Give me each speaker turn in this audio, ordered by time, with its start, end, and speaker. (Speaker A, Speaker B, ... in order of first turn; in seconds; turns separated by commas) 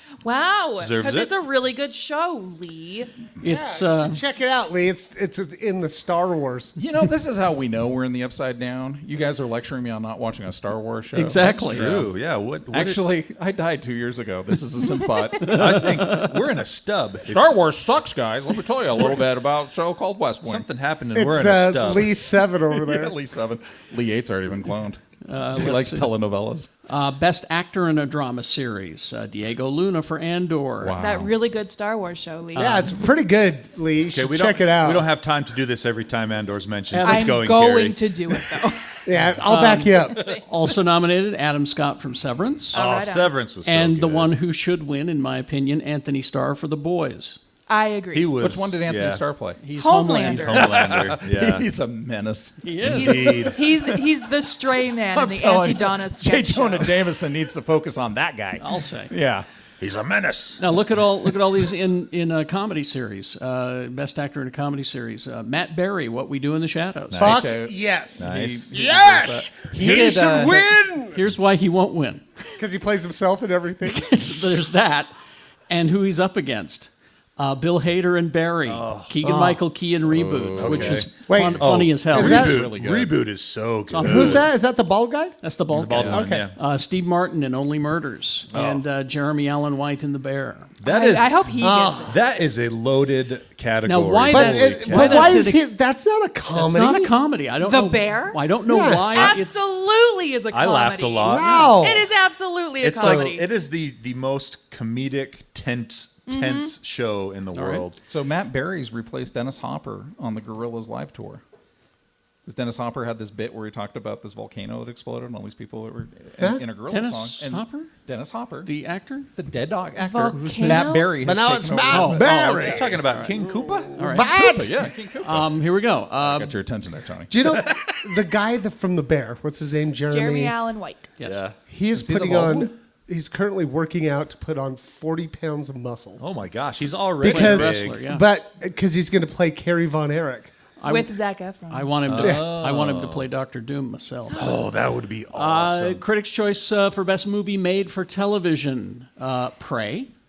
Speaker A: 0.2-3.1, Speaker B: 0.8-1.3, Speaker C: 3.4-4.2, Speaker D: 3.4-6.7, Speaker E: 6.8-12.1, Speaker C: 11.1-11.9, Speaker B: 11.6-13.0, Speaker E: 12.7-15.8, Speaker C: 15.4-16.4, Speaker B: 15.4-17.4, Speaker E: 17.2-20.6, Speaker B: 20.4-22.1, Speaker D: 21.1-23.1, Speaker E: 22.7-25.0, Speaker C: 25.2-26.1, Speaker E: 25.5-26.7, Speaker C: 26.9-30.9, Speaker E: 30.8-31.3, Speaker A: 31.0-32.9, Speaker D: 32.5-35.1, Speaker B: 34.1-38.0, Speaker C: 36.9-37.4, Speaker A: 37.0-39.0, Speaker D: 39.0-40.3, Speaker C: 39.4-42.8, Speaker A: 40.1-40.4, Speaker A: 42.7-43.3, Speaker B: 42.7-44.3, Speaker C: 43.6-47.4, Speaker A: 47.7-48.3, Speaker B: 48.1-49.2, Speaker E: 48.4-49.6, Speaker C: 49.6-50.8, Speaker A: 49.8-50.9, Speaker B: 50.3-51.7, Speaker E: 50.7-53.4, Speaker C: 52.6-53.5, Speaker B: 52.8-53.6, Speaker A: 52.8-57.0, Speaker E: 55.1-59.5, Speaker C: 58.6-59.1, Speaker B: 59.8-60.7, Speaker C: 60.6-67.4, Speaker B: 67.1-67.5, Speaker D: 67.2-71.2, Speaker E: 67.2-70.7, Speaker B: 68.2-68.7, Speaker C: 71.1-72.4, Speaker D: 72.6-74.7, Speaker C: 73.9-75.1, Speaker C: 75.7-82.5, Speaker B: 78.6-79.2, Speaker D: 79.2-79.6, Speaker E: 80.0-81.1, Speaker B: 80.6-84.5, Speaker D: 81.1-82.7, Speaker E: 82.2-83.2, Speaker C: 83.9-84.5, Speaker D: 84.0-85.4, Speaker C: 85.4-90.7, Speaker B: 85.7-86.5, Speaker D: 86.1-86.5, Speaker B: 88.5-88.8, Speaker B: 90.8-95.4, Speaker A: 90.8-92.2, Speaker D: 91.6-92.2, Speaker C: 93.8-95.6, Speaker D: 94.3-97.1, Speaker C: 96.5-99.6, Speaker A: 97.6-98.4, Speaker D: 98.7-99.2, Speaker A: 99.1-103.5, Speaker B: 100.5-101.9, Speaker D: 101.2-102.1, Speaker B: 102.8-108.0, Speaker A: 106.3-106.7, Speaker C: 107.5-107.8, Speaker E: 108.0-111.4, Speaker E: 112.4-118.7, Speaker C: 116.9-117.9, Speaker C: 118.6-119.3, Speaker E: 119.3-122.2, Speaker A: 120.0-121.1, Speaker C: 120.3-120.9, Speaker D: 121.2-124.9, Speaker C: 121.9-123.4, Speaker B: 122.2-124.2, Speaker C: 124.0-124.4, Speaker E: 124.2-125.5, Speaker C: 125.2-126.5, Speaker E: 126.2-127.3, Speaker D: 127.3-130.5, Speaker A: 130.1-131.1, Speaker B: 131.2-131.6, Speaker D: 131.7-136.2, Speaker E: 131.9-132.7, Speaker B: 136.2-138.0, Speaker D: 137.2-140.5, Speaker C: 137.2-138.2, Speaker C: 140.8-141.1, Speaker A: 140.8-141.9, Speaker C: 141.7-144.6, Speaker B: 142.1-143.3, Speaker B: 144.3-146.0, Speaker C: 145.3-150.1